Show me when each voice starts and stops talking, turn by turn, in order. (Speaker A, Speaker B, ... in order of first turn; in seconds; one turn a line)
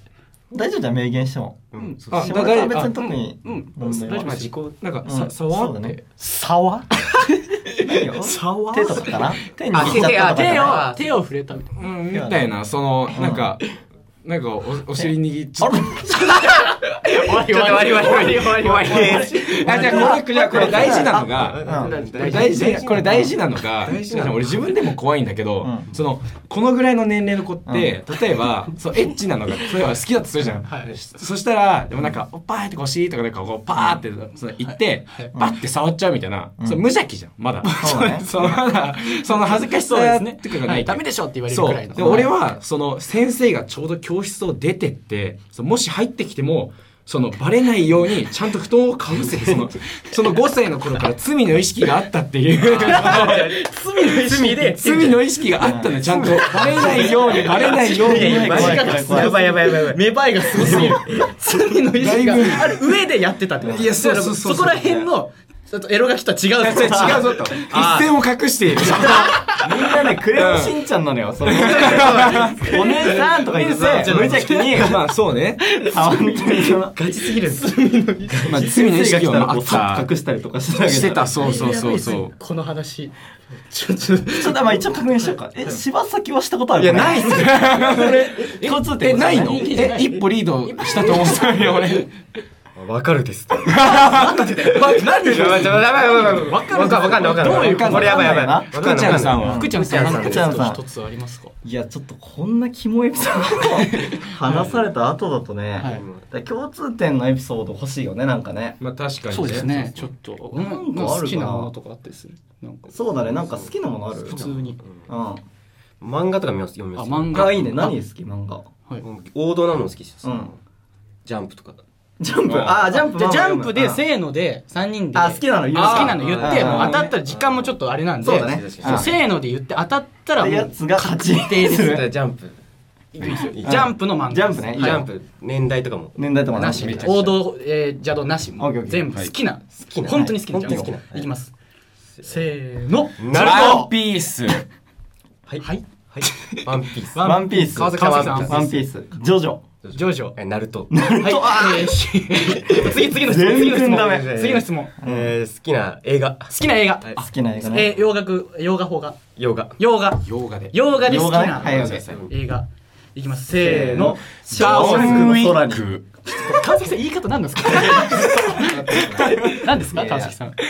Speaker A: 0.5-4.4
Speaker B: 1.7-2.4
Speaker C: 1.8-2.0
Speaker D: 2.1-3.1
Speaker C: 3.0-4.6
Speaker B: 4.1-4.8
Speaker D: 4.8-6.0
Speaker A: 5.0-6.0
Speaker C: 6.2-9.2
Speaker A: 7.8-10.8
Speaker B: 9.7-11.1
Speaker C: 9.7-11.8
Speaker D: 11.8-16.0
Speaker A: 12.1-12.4
Speaker A: 13.1-13.6
Speaker A: 14.9-16.4
Speaker C: 16.3-20.2
Speaker B: 16.6-24.8
Speaker D: 18.0-18.3
Speaker A: 18.8-22.0
Speaker D: 19.6-53.5
Speaker C: 22.1-22.8
Speaker A: 22.6-23.3
Speaker A: 25.6-25.9
Speaker A: 27.7-28.0
Speaker C: 30.6-30.9
Speaker C: 34.6-35.3
Speaker A: 36.6-36.9
Speaker C: 37.6-42.3
Speaker A: 37.8-38.3
Speaker B: 49.1-49.7
Speaker B: 52.6-61.3
Speaker C: 52.8-55.1
Speaker D: 54.7-58.9
Speaker A: 55.6-56.0
Speaker C: 56.2-68.1
Speaker A: 58.1-59.3
Speaker D: 62.0-62.8
Speaker A: 63.6-64.0
Speaker D: 63.7-65.1
Speaker D: 66.6-69.3
Speaker A: 66.8-67.3
Speaker B: 67.7-68.0
Speaker C: 68.8-69.9
Speaker A: 69.0-75.0
Speaker D: 70.3-70.8
Speaker D: 71.5-72.5
Speaker B: 71.9-73.2
Speaker C: 72.5-75.1
Speaker D: 74.7-75.7
Speaker C: 75.6-78.7
Speaker A: 75.8-77.0
Speaker B: 76.9-77.8
Speaker B: 78.3-78.7
Speaker D: 78.4-80.1
Speaker A: 78.6-81.5
Speaker D: 80.8-82.3
Speaker C: 81.4-83.2
Speaker C: 83.7-85.7
Speaker A: 84.3-89.7
Speaker B: 86.8-88.4
Speaker D: 87.2-92.1
Speaker C: 87.8-92.0
Speaker B: 92.8-93.8
Speaker D: 93.7-96.0
Speaker C: 93.8-101.5
Speaker B: 94.7-100.8
Speaker D: 97.5-99.6
Speaker A: 97.9-100.8
Speaker A: 101.6-108.8
Speaker C: 103.9-104.8
Speaker B: 104.5-104.8
Speaker B: 105.8-106.3
Speaker D: 108.8-110.1
Speaker C: 109.3-112.9
Speaker A: 110.4-111.7
Speaker A: 112.9-114.4
Speaker B: 113.3-113.7
Speaker C: 114.2-114.8
Speaker B: 114.3-115.1
Speaker A: 115.1-115.4
Speaker B: 116.0-117.5
Speaker C: 117.0-118.0
Speaker A: 117.3-118.7
Speaker B: 119.0-120.6
Speaker A: 120.2-120.5
Speaker B: 121.2-121.8
Speaker A: 122.2-124.0
Speaker D: 122.5-122.8
Speaker C: 122.9-132.0
Speaker A: 125.1-127.0
Speaker D: 125.8-127.2
Speaker B: 126.0-129.2
Speaker A: 128.2-129.2
Speaker A: 130.4-132.1
Speaker B: 131.6-132.6
Speaker C: 133.1-135.1
Speaker B: 133.2-133.9
Speaker A: 133.3-135.1
Speaker B: 134.8-137.4
Speaker A: 136.2-137.1
Speaker C: 136.5-141.5
Speaker D: 136.8-137.2
Speaker A: 138.6-139.1
Speaker B: 139.8-141.3
Speaker C: 142.2-143.9
Speaker B: 143.2-143.9
Speaker D: 143.3-144.7
Speaker B: 145.5-148.9
Speaker C: 145.6-148.6
Speaker A: 147.2-149.6
Speaker B: 149.8-151.0
Speaker C: 149.9-150.4
Speaker A: 150.9-154.4
Speaker C: 151.2-154.9
Speaker B: 153.7-158.0
Speaker A: 155.0-155.3
Speaker C: 156.5-159.2
Speaker A: 157.2-157.9
Speaker B: 159.4-159.8
Speaker C: 159.8-165.3
Speaker D: 160.2-160.8
Speaker A: 161.0-162.1
Speaker B: 161.1-162.3
Speaker D: 161.8-162.1
Speaker A: 163.6-165.9
Speaker B: 163.6-164.2
Speaker D: 164.5-166.1
Speaker C: 166.3-170.6
Speaker A: 167.7-170.3
Speaker D: 168.0-169.8